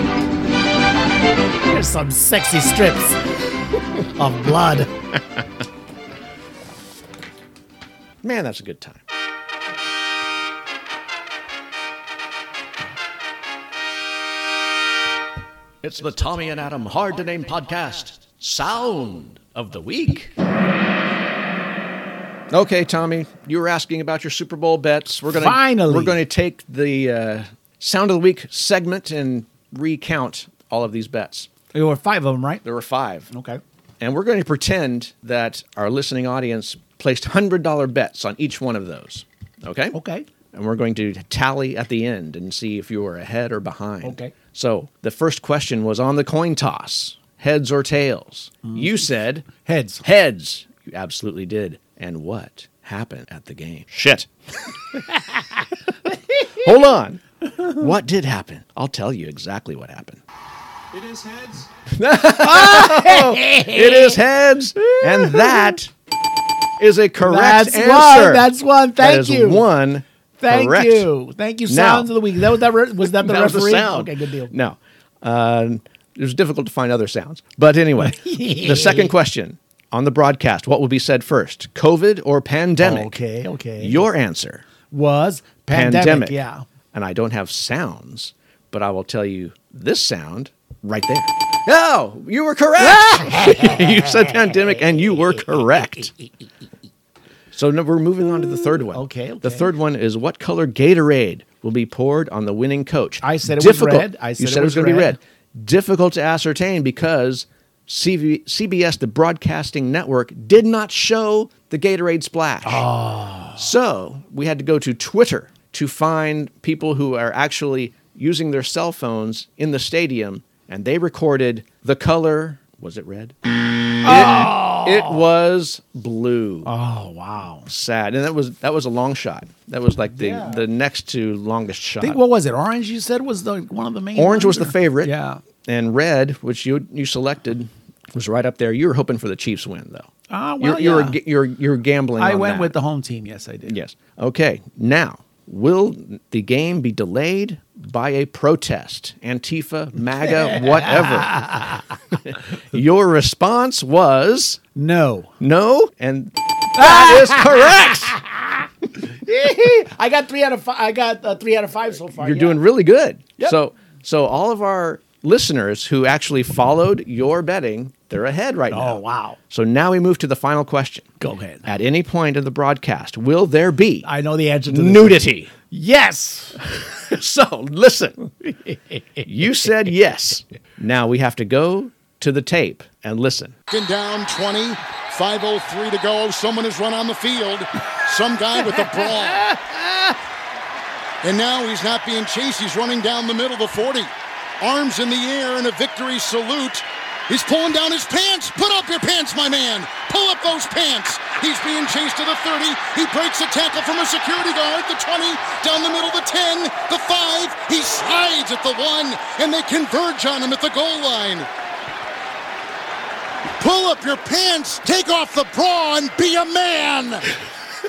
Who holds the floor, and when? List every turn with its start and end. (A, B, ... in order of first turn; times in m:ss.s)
0:01.6-0:03.2 A
0:04.2-0:04.9 A
0:08.2-0:09.0 B
0:15.8-0:20.3 B
0:22.5-0:31.5 B
0:25.3-0:26.2 A
0:31.7-0:32.6 A
0:32.6-0:33.3 B
0:33.3-0:33.6 A
0:34.0-0:40.0 B
0:39.9-0:40.3 A
0:40.5-0:49.5 B
0:44.0-0:44.3 A
0:48.6-0:50.0 A
0:50.0-0:54.3 B
0:56.5-1:00.2 B
1:01.0-1:01.5 A
1:01.9-1:05.9 B
1:02.2-1:04.2 A
1:04.8-1:05.8 A
1:06.8-1:11.1 B
1:07.2-1:09.7 A
1:10.4-1:14.5 A
1:11.7-1:12.2 B
1:13.1-1:23.1 B
1:18.0-1:19.2 A
1:22.8-1:24.1 A
1:23.8-1:24.6 B
1:24.9-1:26.6 A
1:25.7-1:26.4 B
1:26.9-1:36.1 B
1:32.8-1:36.3 A
1:37.5-1:52.9 B
1:38.9-1:39.7 A
1:43.2-1:45.2 A
1:52.6-1:53.7 A
1:53.6-2:03.4 B
2:04.0-2:06.7 B
2:04.0-2:05.2 A
2:06.6-2:07.7 A
2:07.7-2:12.2 B
2:10.2-2:10.6 A
2:12.0-2:15.4 A
2:14.2-2:15.1 B
2:15.6-2:22.7 B
2:20.3-2:21.2 A
2:22.2-2:23.8 A
2:23.7-2:31.4 B
2:30.2-2:32.0 A
2:32.2-2:34.6 B
2:34.8-2:35.3 A
2:35.4-2:38.2 B
2:36.8-2:42.6 A
2:42.2-2:51.1 B
2:48.7-2:49.4 A
2:51.2-2:51.7 A
2:51.6-2:54.1 B
2:54.0-2:56.6 A
2:54.7-2:55.5 B
2:56.7-2:58.3 B
2:58.4-2:59.2 A
2:59.2-3:03.6 B
3:03.7-3:09.6 C
3:08.7-3:10.1 A
3:11.2-3:31.5 C
3:33.6-3:37.3 C